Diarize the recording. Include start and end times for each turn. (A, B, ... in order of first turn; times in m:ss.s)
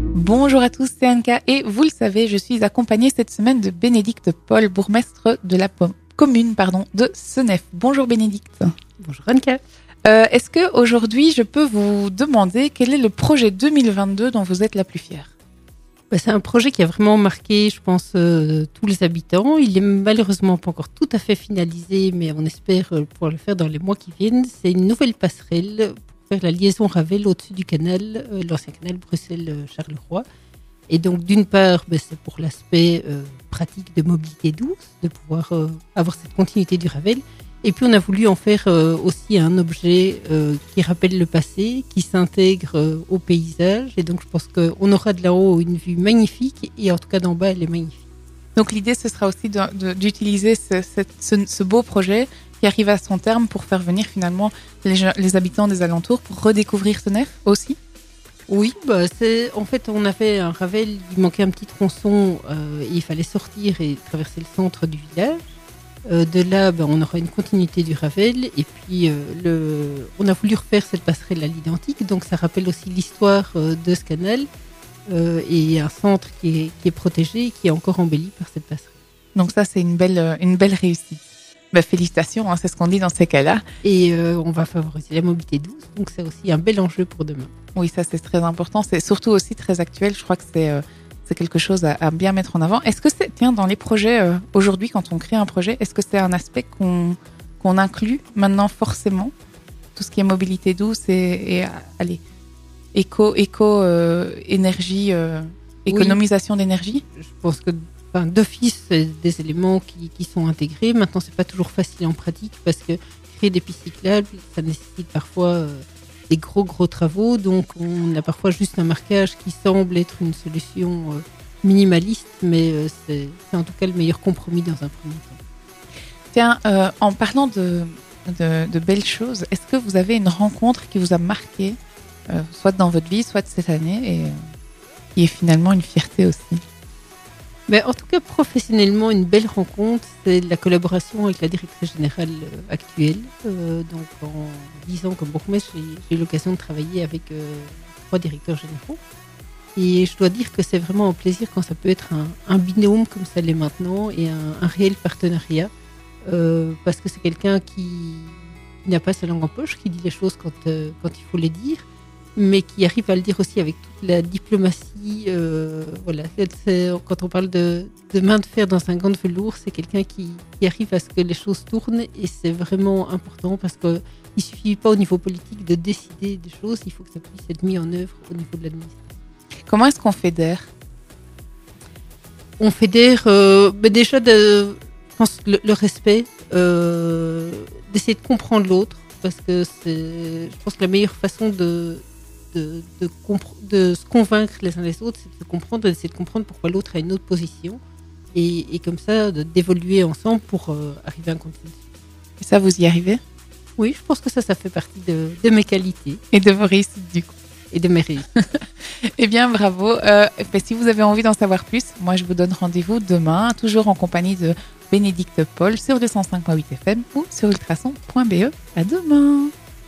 0:00.2-0:08.7 A
0:09.0-0:09.6 B
0:10.0-0:15.3 A
0:16.1-0:30.2 B
0:30.9-0:48.0 B
0:48.6-0:57.8 A
0:58.5-1:05.5 B
1:06.1-1:14.5 B
1:15.1-1:19.0 B
1:19.3-1:21.2 A
1:21.7-1:23.6 A
1:23.8-1:27.5 B
1:27.8-1:39.3 A
1:40.0-1:42.2 A
1:42.9-1:47.0 A
1:45.9-1:46.2 B
1:47.2-2:05.4 B
2:06.3-2:11.8 A
2:12.3-2:14.4 A
2:15.2-2:16.6 A
2:17.7-2:29.0 B
2:29.8-2:35.7 B
2:36.2-2:59.1 B
2:59.7-3:00.7 A
3:02.6-3:17.8 B
3:18.3-3:21.8 B
3:22.4-3:23.2 A
3:23.8-3:26.2 B
3:26.3-3:27.3 A
3:27.7-3:28.3 B
3:29.2-3:39.5 A